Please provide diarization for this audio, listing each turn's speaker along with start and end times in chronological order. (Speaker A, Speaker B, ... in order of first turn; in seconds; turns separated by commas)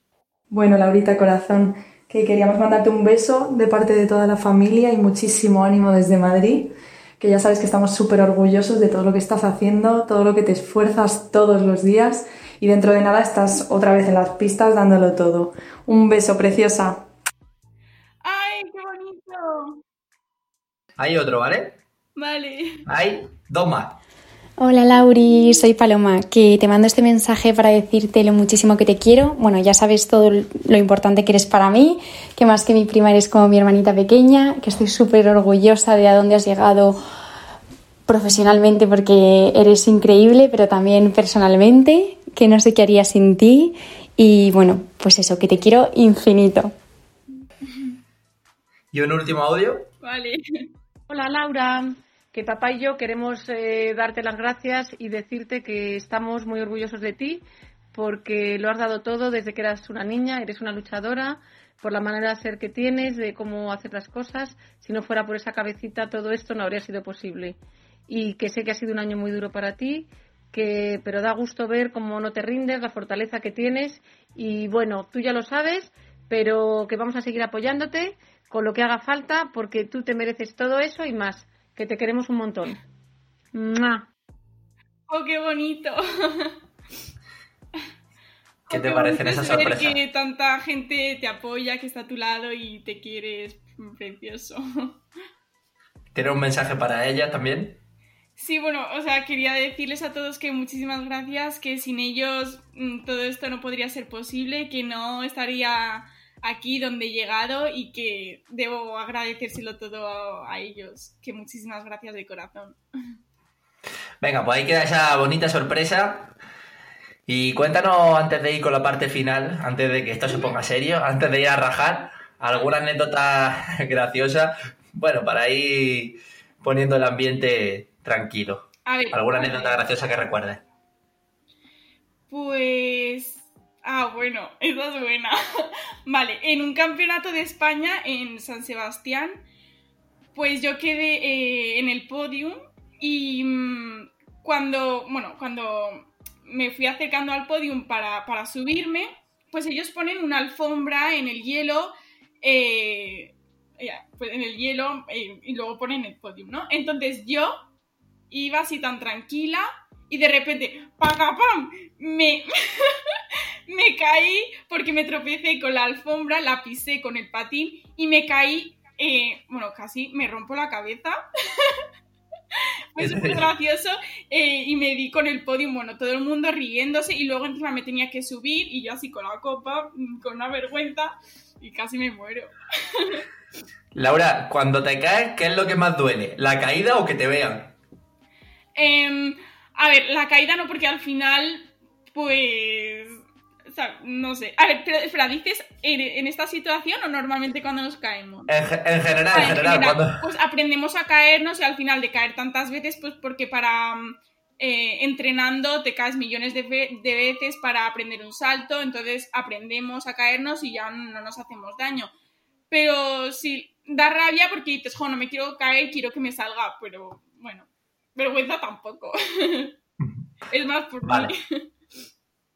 Speaker A: 0.5-17.0, Speaker B: 18.2-19.8, Speaker C: 21.0-21.8, Speaker B: 22.1-22.8, Speaker C: 22.9-24.0, Speaker D: 24.6-37.0, Speaker D: 38.1-46.7, Speaker C: 48.9-49.9, Speaker B: 50.0-50.4, Speaker E: 51.1-82.8, Speaker E: 83.5-84.1, Speaker B: 85.1-86.5, Speaker C: 88.7-90.0, Speaker B: 88.7-95.0, Speaker C: 96.1-97.8, Speaker B: 98.3-112.8, Speaker C: 114.2-116.3, Speaker C: 117.3-130.6, Speaker B: 128.8-129.8, Speaker B: 132.3-139.4, Speaker B: 140.3-157.6, Speaker B: 158.3-163.1, Speaker B: 163.7-171.8, Speaker B: 172.9-183.2, Speaker C: 173.0-173.5, Speaker C: 183.9-187.7, Speaker B: 188.8-198.5, Speaker C: 198.5-200.1, Speaker B: 199.3-212.1, Speaker B: 212.7-219.7, Speaker B: 220.5-221.3, Speaker C: 221.0-221.3